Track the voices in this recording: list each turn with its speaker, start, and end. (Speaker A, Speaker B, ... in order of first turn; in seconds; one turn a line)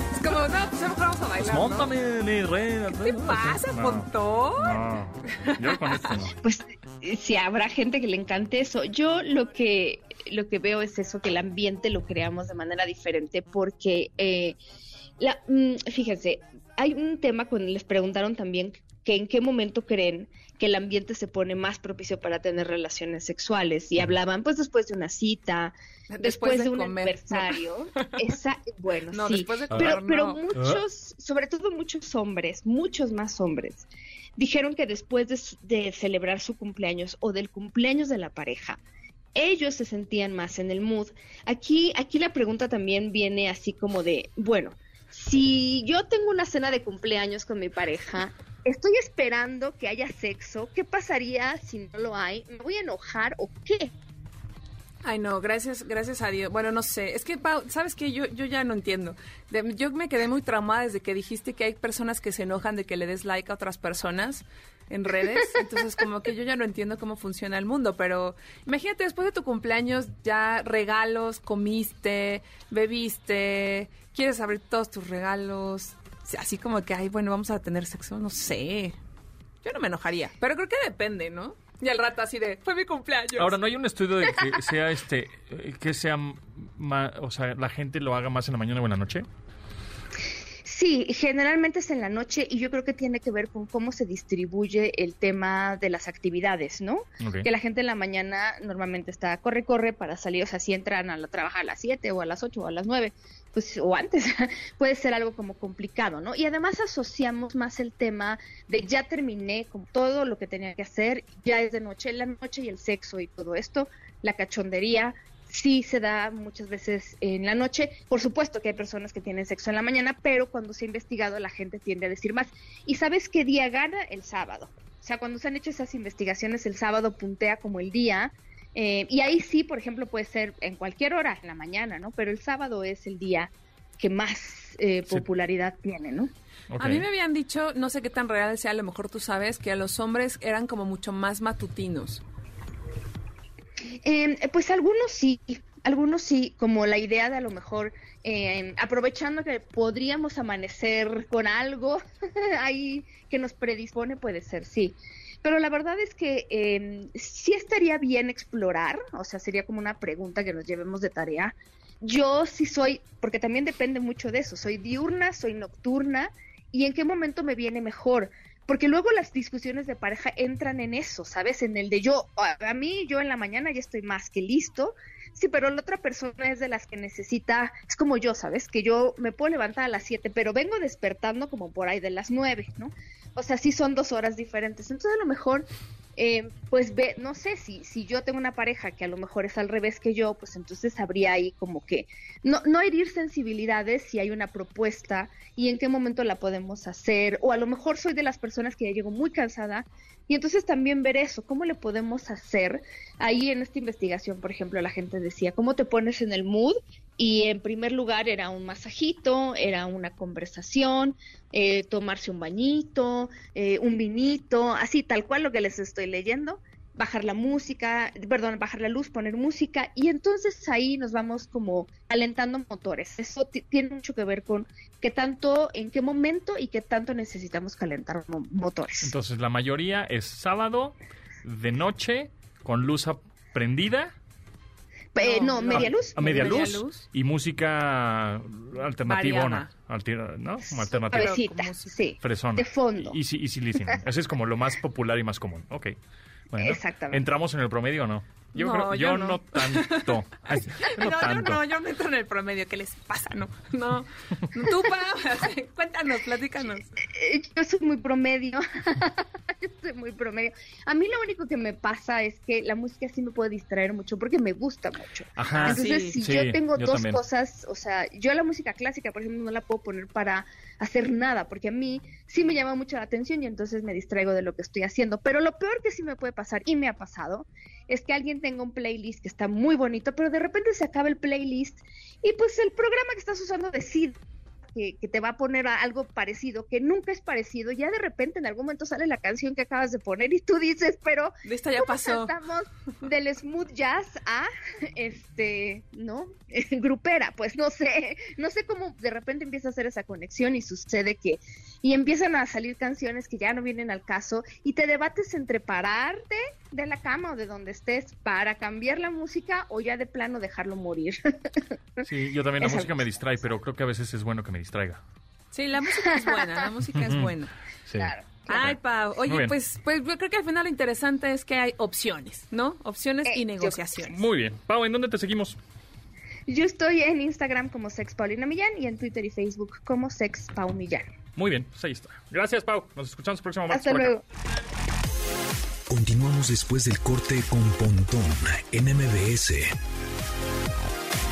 Speaker A: 0.1-1.9
Speaker B: 1.4-6.4
Speaker A: 2.9-6.1
Speaker C: 6.4-14.6
Speaker C: 15.2-38.8
Speaker A: 26.1-28.1
Speaker A: 29.1-30.4
Speaker B: 30.6-30.8
Speaker C: 39.4-53.9
Speaker A: 55.0-79.0
Speaker A: 79.6-83.5
Speaker B: 83.4-89.3
Speaker C: 90.7-136.3
Speaker B: 97.2-97.5
Speaker B: 136.7-137.1
Speaker A: 136.8-142.2
Speaker C: 144.0-229.2
Speaker B: 229.0-234.1
Speaker C: 235.2-236.7
Speaker A: 235.2-237.1
Speaker B: 235.7-241.5
Speaker A: 239.1-239.7
Speaker C: 240.9-243.2
Speaker A: 241.1-241.9
Speaker B: 242.2-246.0
Speaker B: 246.5-251.6
Speaker C: 246.6-247.2
Speaker A: 248.6-256.9
Speaker C: 257.0-284.2
Speaker B: 265.4-267.2
Speaker A: 265.6-266.2
Speaker C: 284.7-312.1
Speaker A: 291.4-292.3
Speaker B: 312.0-315.0
Speaker C: 312.6-313.0
Speaker A: 315.5-317.5
Speaker C: 316.1-316.4
Speaker B: 316.9-317.3
Speaker B: 317.9-319.6
Speaker C: 317.9-318.6
Speaker A: 318.5-324.2
Speaker C: 323.3-323.8
Speaker B: 324.0-325.6
Speaker C: 326.5-331.1
Speaker B: 331.4-334.2
Speaker C: 333.7-334.2
Speaker D: 335.9-339.7